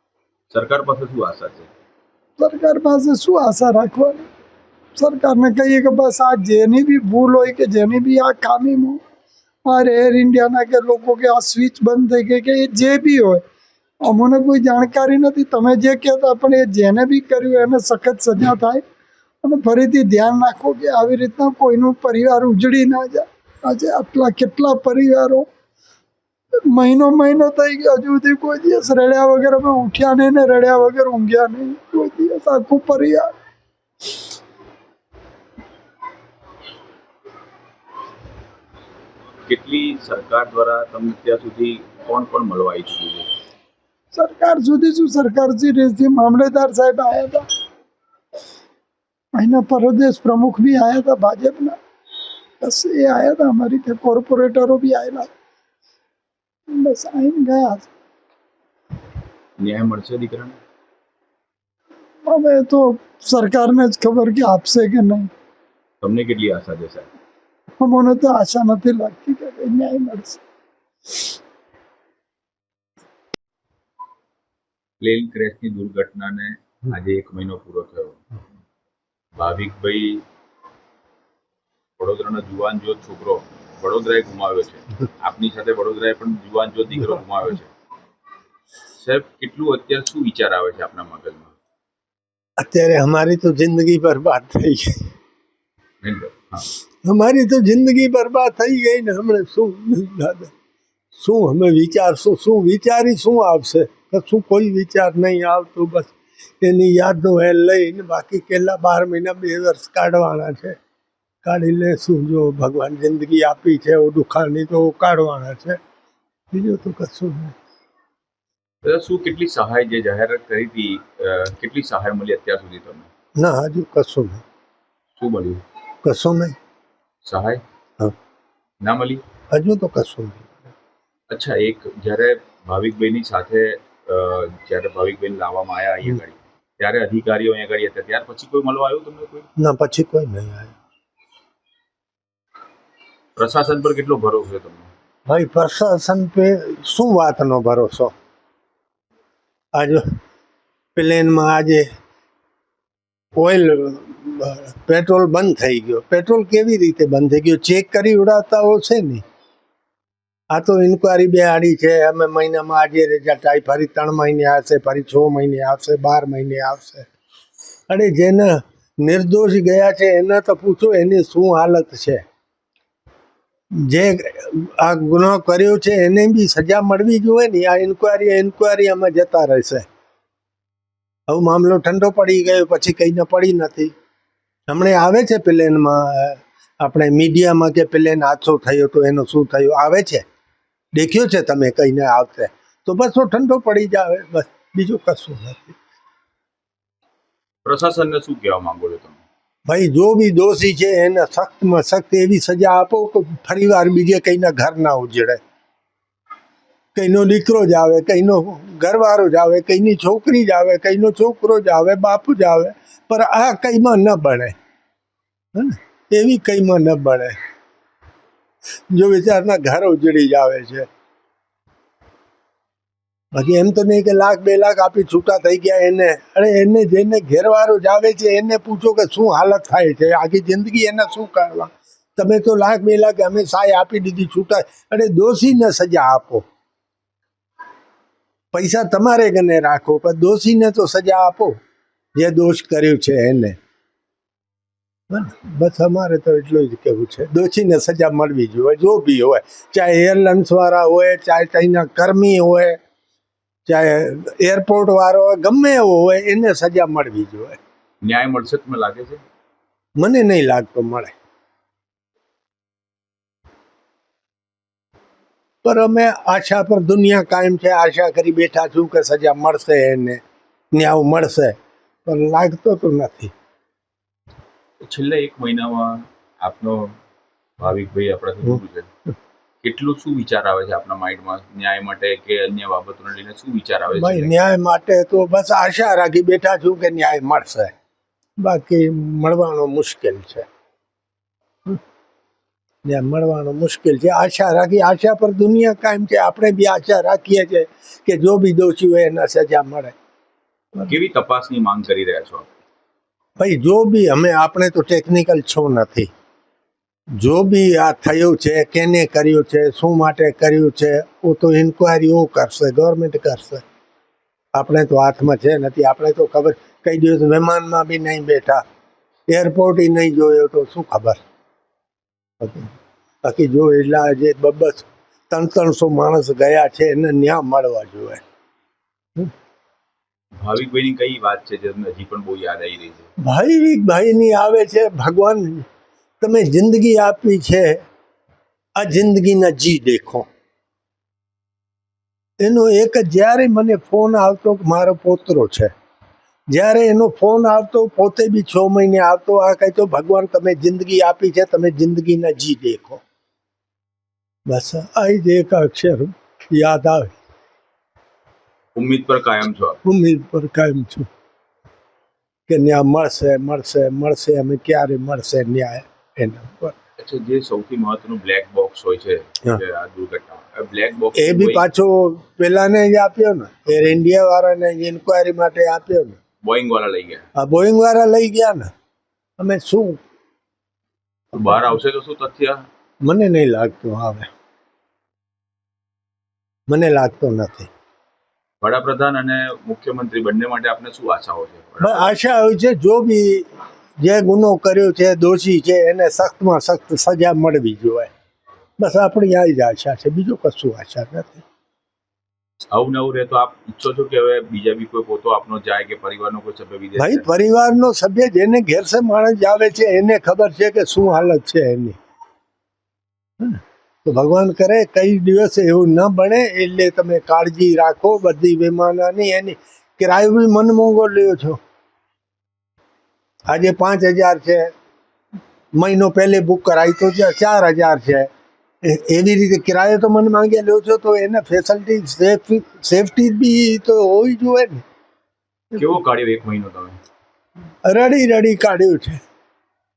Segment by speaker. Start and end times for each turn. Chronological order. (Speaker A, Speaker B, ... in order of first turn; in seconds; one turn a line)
Speaker A: 0.5-1.7
Speaker B: 2.4-4.2
Speaker B: 5.0-9.0
Speaker B: 9.7-13.4
Speaker B: 14.0-18.8
Speaker B: 19.4-25.5
Speaker B: 26.7-33.3
Speaker A: 39.5-43.3
Speaker B: 44.1-47.5
Speaker B: 49.4-51.8
Speaker B: 52.6-55.3
Speaker B: 56.7-57.9
Speaker A: 59.6-60.6
Speaker B: 62.2-65.3
Speaker A: 66.0-67.1
Speaker B: 67.8-70.4
Speaker A: 75.0-78.2
Speaker A: 79.3-80.2
Speaker A: 82.0-87.7
Speaker A: 89.0-91.5
Speaker C: 92.6-95.1
Speaker A: 96.0-96.7
Speaker C: 97.0-100.5
Speaker C: 101.1-110.8
Speaker C: 111.4-115.8
Speaker C: 116.5-117.5
Speaker A: 118.8-123.1
Speaker C: 123.4-124.4
Speaker A: 125.2-125.6
Speaker C: 126.0-126.5
Speaker A: 127.2-127.6
Speaker A: 128.8-129.2
Speaker C: 129.5-130.7
Speaker A: 131.3-139.5
Speaker C: 139.6-140.7
Speaker A: 143.3-144.9
Speaker C: 145.3-148.1
Speaker C: 149.7-150.0
Speaker C: 150.9-151.9
Speaker C: 153.3-159.2
Speaker C: 160.5-167.1
Speaker C: 167.9-172.2
Speaker C: 173.8-179.8
Speaker C: 181.3-183.9
Speaker C: 184.7-190.2
Speaker C: 190.9-195.8
Speaker A: 197.7-199.2
Speaker C: 199.7-205.4
Speaker C: 206.9-214.5
Speaker C: 215.5-217.3
Speaker C: 218.9-220.9
Speaker C: 223.3-236.4
Speaker C: 238.5-241.6
Speaker C: 242.2-243.6
Speaker C: 245.1-252.8
Speaker C: 253.7-257.6
Speaker A: 258.0-259.2
Speaker C: 260.0-261.1
Speaker C: 265.6-270.2
Speaker C: 270.7-273.3
Speaker A: 274.8-276.9
Speaker A: 277.6-278.9
Speaker A: 279.6-284.3
Speaker C: 283.9-287.7
Speaker C: 288.4-290.5
Speaker C: 292.9-299.9
Speaker A: 300.9-302.5
Speaker C: 303.4-306.1
Speaker C: 307.2-313.6
Speaker C: 314.6-318.6
Speaker C: 319.3-321.2
Speaker C: 322.4-322.7
Speaker C: 323.2-328.2
Speaker A: 330.4-333.1
Speaker C: 333.2-335.7
Speaker C: 336.2-337.8
Speaker C: 338.8-340.3
Speaker C: 342.4-345.7
Speaker C: 346.5-353.0
Speaker C: 354.5-357.1
Speaker A: 358.8-359.8
Speaker C: 359.8-361.1
Speaker C: 362.5-366.7
Speaker A: 367.0-371.7
Speaker C: 371.1-376.2
Speaker A: 376.4-377.2
Speaker C: 377.4-378.7
Speaker C: 379.4-380.0
Speaker A: 381.3-382.6
Speaker C: 383.0-384.3
Speaker C: 386.7-387.7
Speaker A: 388.6-392.1
Speaker C: 391.8-393.5
Speaker C: 394.0-398.1
Speaker C: 398.8-401.4
Speaker A: 402.7-407.3
Speaker C: 407.0-412.0
Speaker C: 413.4-421.6
Speaker C: 423.5-424.7
Speaker C: 425.8-428.3
Speaker C: 428.8-434.8
Speaker A: 435.7-437.0
Speaker C: 437.8-439.2